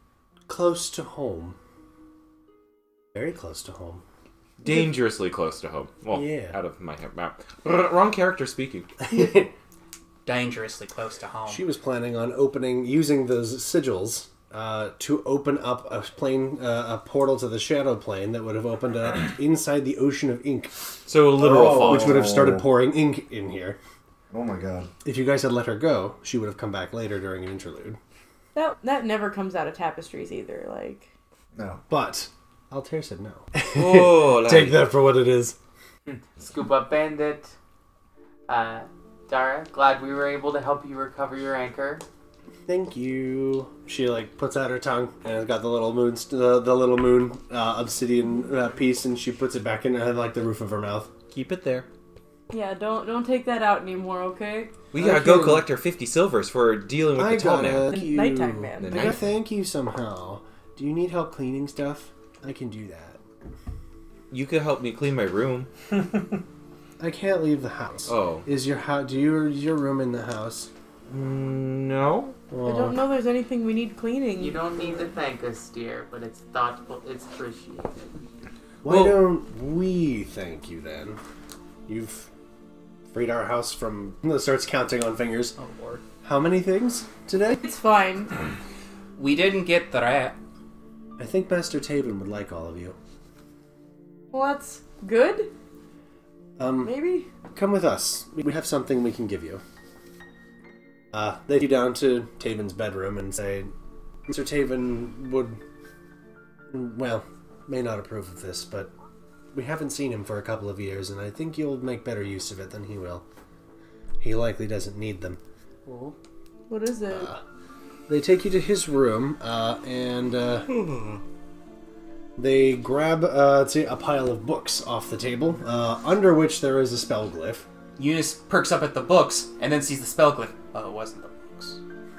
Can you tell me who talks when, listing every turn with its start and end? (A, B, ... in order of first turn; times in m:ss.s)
0:00.5-0:01.6 A
0:03.1-0:04.0 A
0:04.6-0:08.9 B
0:06.1-0:06.6 A
0:09.0-0:09.5 A
0:10.2-0:11.6 C
0:11.5-0:20.8 A
0:21.0-0:22.4 B
0:21.4-0:23.8 A
0:21.4-0:22.7 D
0:24.3-0:24.9 D
0:25.0-0:28.0 A
0:28.6-0:31.0 E
0:31.5-0:31.8 D
0:31.9-0:35.6 A
0:33.7-0:34.8 B
0:36.0-0:37.5 F
0:38.5-0:42.0 F
0:42.7-0:51.1 A
0:51.3-0:51.9 B
0:52.5-0:54.7 E
0:54.9-0:57.9 B
0:55.0-0:55.7 A
0:57.1-1:03.2 A
0:57.9-0:59.0 E
0:58.8-0:59.3 B
1:04.3-1:05.7 B
1:07.0-1:10.7 A
1:08.1-1:08.4 B
1:11.1-1:12.4 B
1:12.5-1:13.0 A
1:12.6-1:15.0 E
1:14.4-1:18.2 F
1:18.8-1:21.2 A
1:18.8-1:19.2 B
1:21.9-1:22.3 A
1:23.1-1:25.6 A
1:25.6-1:26.0 C
1:26.2-1:27.6 A
1:27.6-1:28.3 E
1:29.2-1:30.4 C
1:31.2-1:33.0 A
1:34.3-1:35.5 E
1:36.6-1:39.6 A
1:36.8-1:37.3 E
1:41.1-1:43.7 A
1:44.3-1:45.6 A
1:46.7-1:48.9 A
1:49.5-1:53.2 A
1:54.2-1:55.4 A
1:56.7-1:57.3 E
1:57.1-1:57.4 A
1:58.1-2:00.7 A
2:02.4-2:07.6 A
2:08.0-2:11.8 C